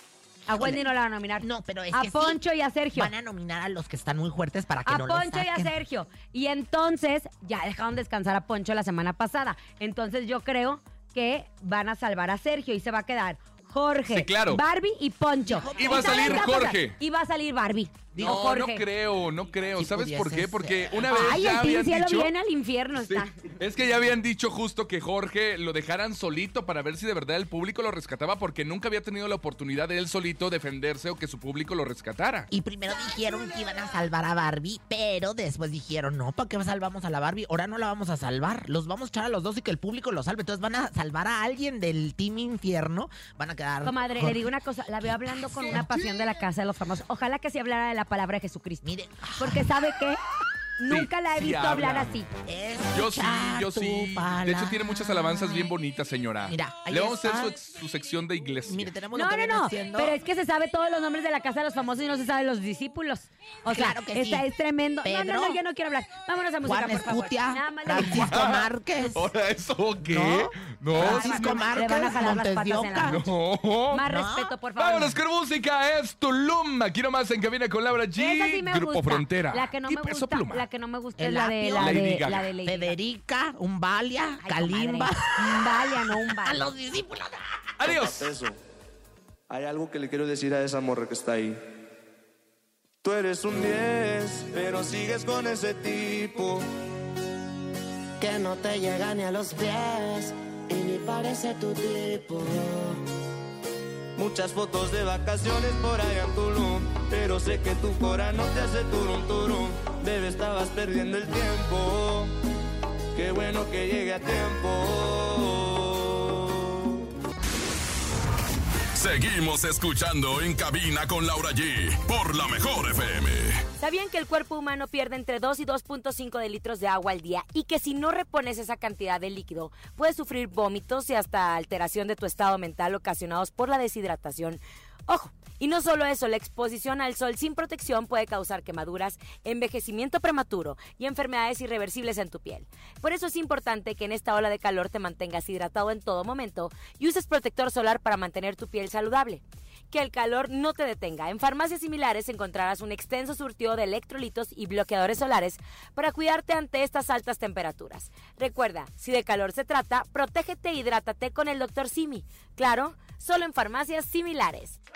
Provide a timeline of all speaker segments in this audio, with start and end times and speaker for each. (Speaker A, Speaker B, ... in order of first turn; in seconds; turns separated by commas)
Speaker A: 0.5-3.1, Speaker B: 0.5-0.8, Speaker B: 1.4-2.4, Speaker B: 2.9-5.8, Speaker A: 4.9-18.9, Speaker C: 14.1-14.6, Speaker B: 15.4-16.6, Speaker C: 15.8-17.0, Speaker B: 18.1-18.5, Speaker C: 18.2-22.3, Speaker B: 19.7-21.3, Speaker A: 21.1-23.4, Speaker C: 23.0-32.5, Speaker B: 32.5-46.2, Speaker A: 43.8-50.2, Speaker B: 48.8-49.8, Speaker A: 50.8-52.3, Speaker C: 50.9-52.1, Speaker B: 52.5-55.7, Speaker C: 52.9-58.9, Speaker B: 56.5-57.6, Speaker B: 58.7-60.2, Speaker A: 59.1-68.3, Speaker B: 63.7-64.5, Speaker B: 65.0-65.6, Speaker B: 66.6-69.3, Speaker C: 68.1-71.7, Speaker B: 70.0-73.2, Speaker A: 71.0-73.2, Speaker C: 73.1-74.0, Speaker A: 73.9-75.2, Speaker B: 74.0-74.6, Speaker C: 74.8-80.7, Speaker A: 78.2-83.0, Speaker B: 81.2-87.7, Speaker C: 81.8-82.5, Speaker A: 84.4-86.7, Speaker C: 87.8-88.3, Speaker D: 87.9-88.6, Speaker D: 89.5-91.6, Speaker D: 93.0-96.7, Speaker E: 98.2-103.0, Speaker D: 104.2-112.3, Speaker D: 113.2-117.0, Speaker F: 119.0-123.6, Speaker A: 123.8-164.8